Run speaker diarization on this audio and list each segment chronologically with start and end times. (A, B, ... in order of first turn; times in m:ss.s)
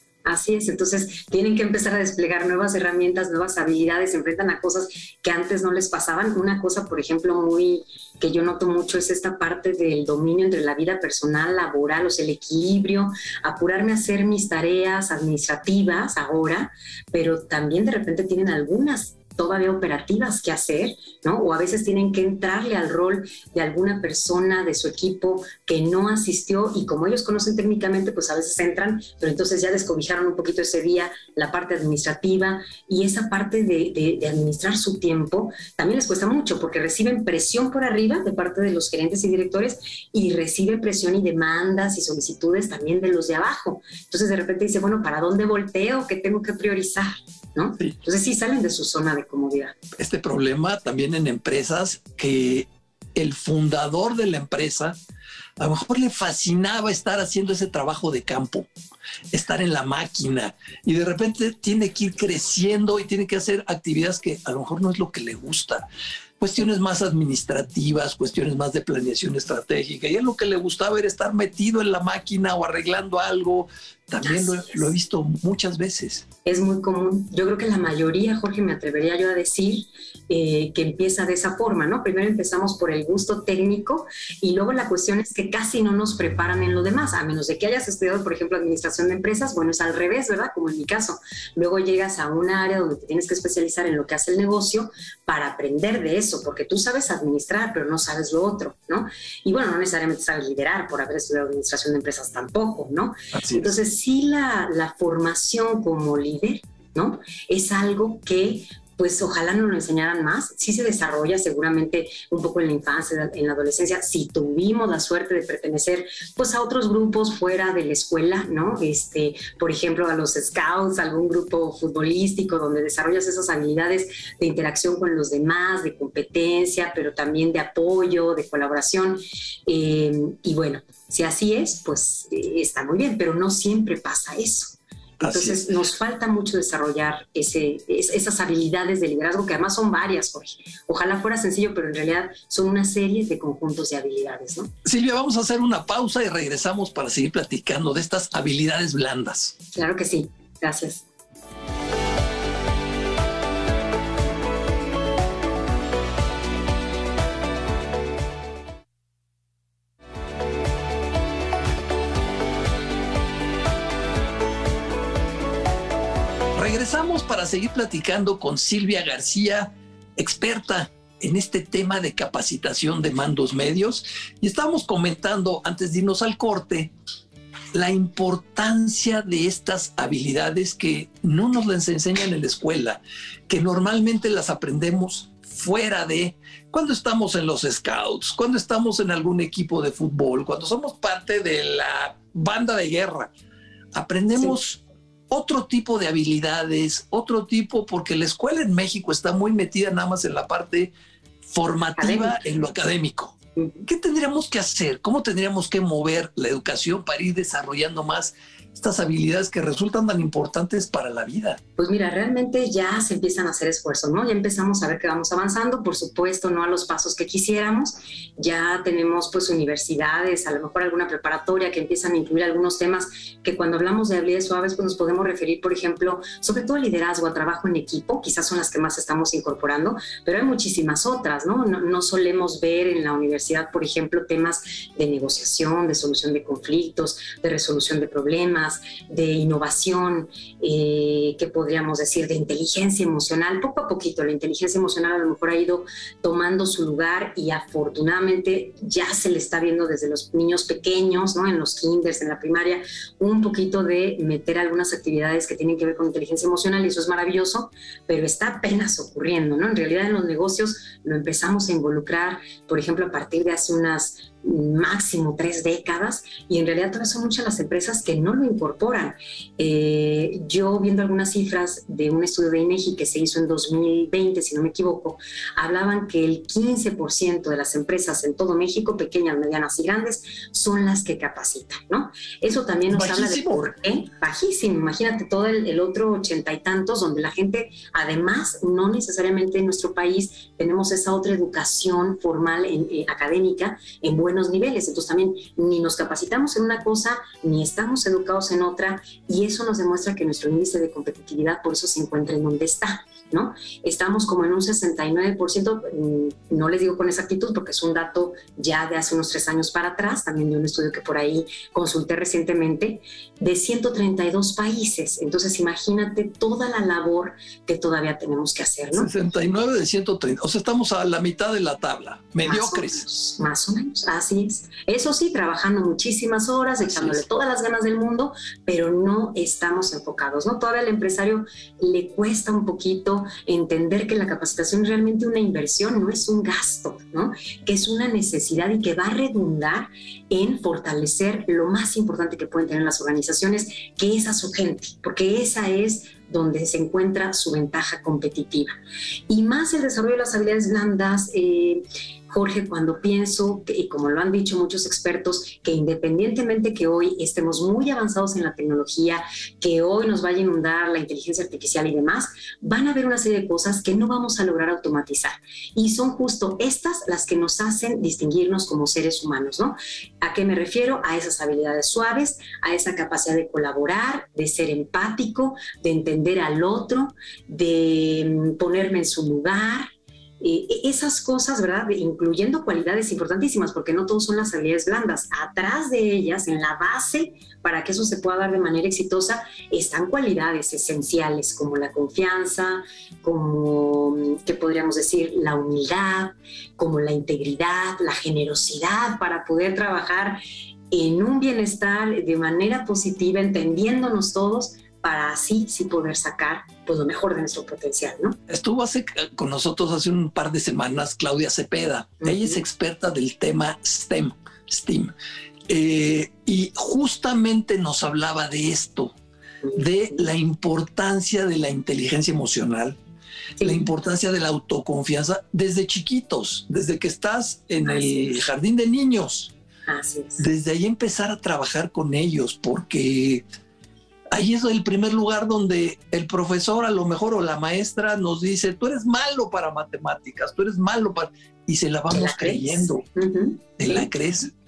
0:00.2-0:49.8 A
0:50.0-0:55.0 B
0:55.6-0:58.7 B
0:59.3-1:05.8 B
1:06.4-1:16.3 B
1:14.2-1:14.8 A
1:16.4-2:24.7 A
1:43.3-1:43.7 B
2:15.2-2:15.6 B
2:24.8-2:29.6 B
2:29.7-2:31.0 A
2:46.6-2:56.9 B
2:57.7-3:13.3 B
3:13.9-3:20.9 B
3:21.5-3:31.6 B
3:22.0-3:22.4 A
3:23.6-3:23.8 A
3:31.8-5:19.1 A
4:42.9-4:43.7 B
5:19.0-5:23.1 B
5:22.4-5:48.8 A
5:26.8-5:27.2 B
5:49.3-6:19.9 A
6:20.4-6:40.4 A
6:40.9-6:48.4 A
6:48.5-6:55.1 B
6:52.2-6:52.6 A
6:55.7-6:59.2 B
6:59.6-7:00.3 A
6:59.8-7:03.0 B
7:03.6-7:03.9 A
7:03.6-7:09.5 B
7:09.9-7:10.5 A
7:10.4-7:13.4 B
7:14.3-7:23.0 B
7:22.1-7:24.1 A
7:23.8-7:24.5 B